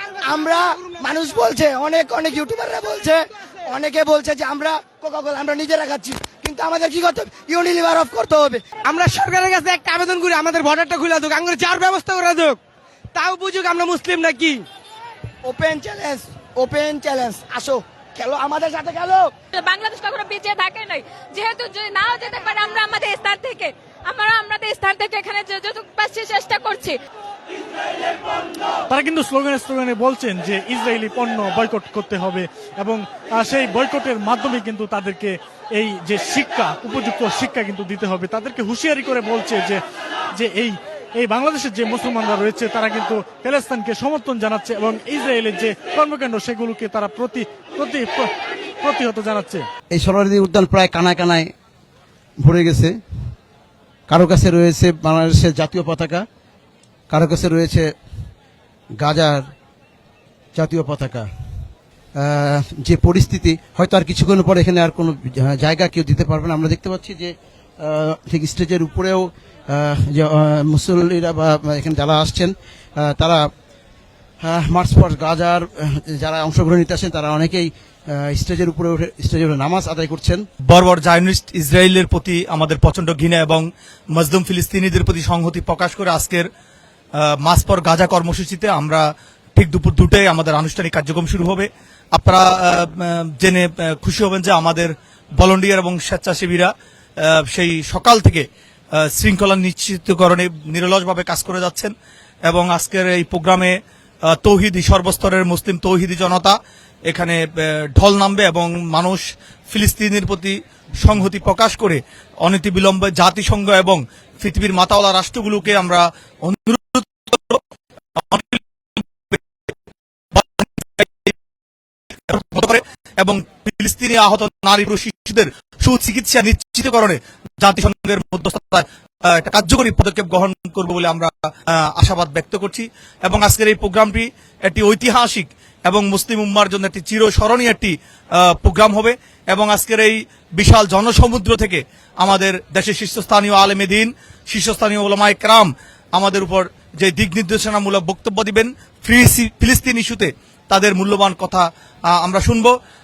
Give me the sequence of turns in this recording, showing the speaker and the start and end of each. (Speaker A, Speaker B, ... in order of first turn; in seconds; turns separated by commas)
Speaker A: 0.2-8.6, Speaker B: 8.8-12.6, Speaker B: 13.1-14.6, Speaker A: 15.4-19.3, Speaker C: 19.5-27.0, Speaker D: 28.9-39.8, Speaker D: 40.3-49.7, Speaker E: 49.9-51.5, Speaker E: 52.4-52.9, Speaker E: 54.1-56.2, Speaker E: 57.1-57.9, Speaker E: 59.0-59.5, Speaker E: 60.5-61.3, Speaker E: 62.2-73.5, Speaker E: 74.4-80.4, Speaker F: 80.7-86.5, Speaker F: 87.2-89.0, Speaker F: 89.5-98.5, Speaker F: 99.0-101.9, Speaker F: 102.5-103.8, Speaker F: 104.3-117.6, Speaker F: 118.2-119.4, Speaker F: 120.3-121.4, Speaker F: 122.3-152.7